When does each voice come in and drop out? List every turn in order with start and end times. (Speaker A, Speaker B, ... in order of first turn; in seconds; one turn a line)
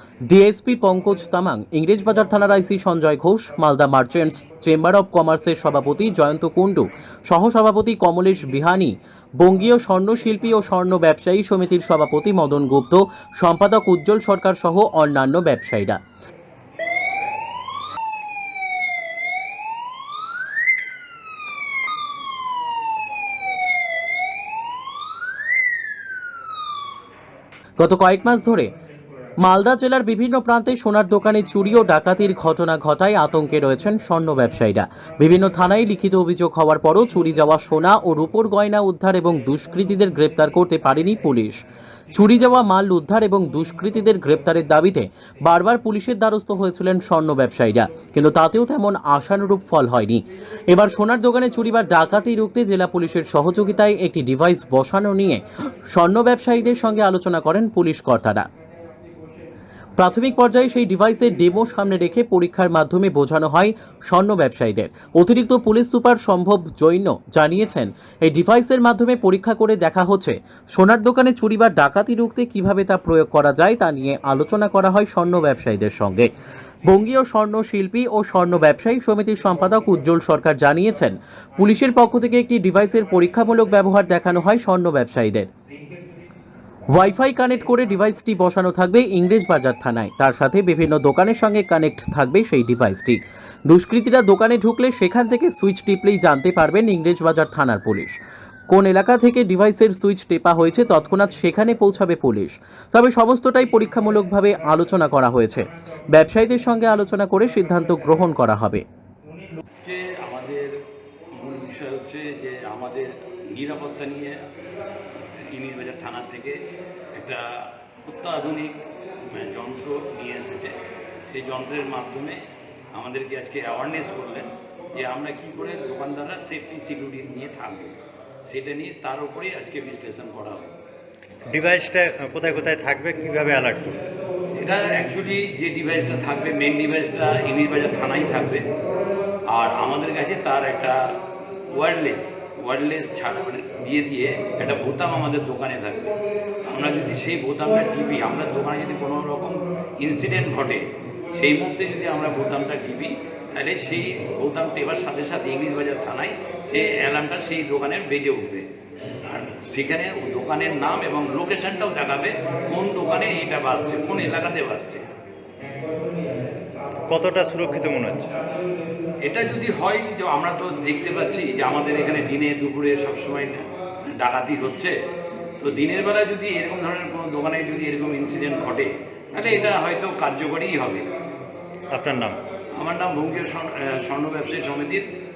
Speaker A: 0.3-16.0
Speaker A: 27.8-28.7
Speaker A: 29.4-41.6
Speaker A: 42.1-58.5
Speaker A: 60.0-76.3
Speaker A: 76.9-85.5
Speaker A: 86.9-98.2
Speaker A: 98.7-108.8
Speaker B: 109.8-110.8
Speaker B: 111.3-114.4
Speaker B: 115.2-116.6
Speaker B: 117.2-118.8
Speaker B: 119.3-120.8
Speaker B: 121.3-122.4
Speaker B: 123.0-128.0
Speaker B: 128.5-130.8
Speaker C: 131.5-134.0
Speaker B: 134.6-138.7
Speaker B: 139.5-141.2
Speaker B: 141.7-146.2
Speaker B: 146.7-150.8
Speaker B: 151.3-158.7
Speaker B: 159.3-165.1
Speaker C: 167.1-168.4
Speaker B: 169.3-174.9
Speaker B: 175.6-181.1
Speaker C: 181.9-182.4
Speaker B: 182.8-185.1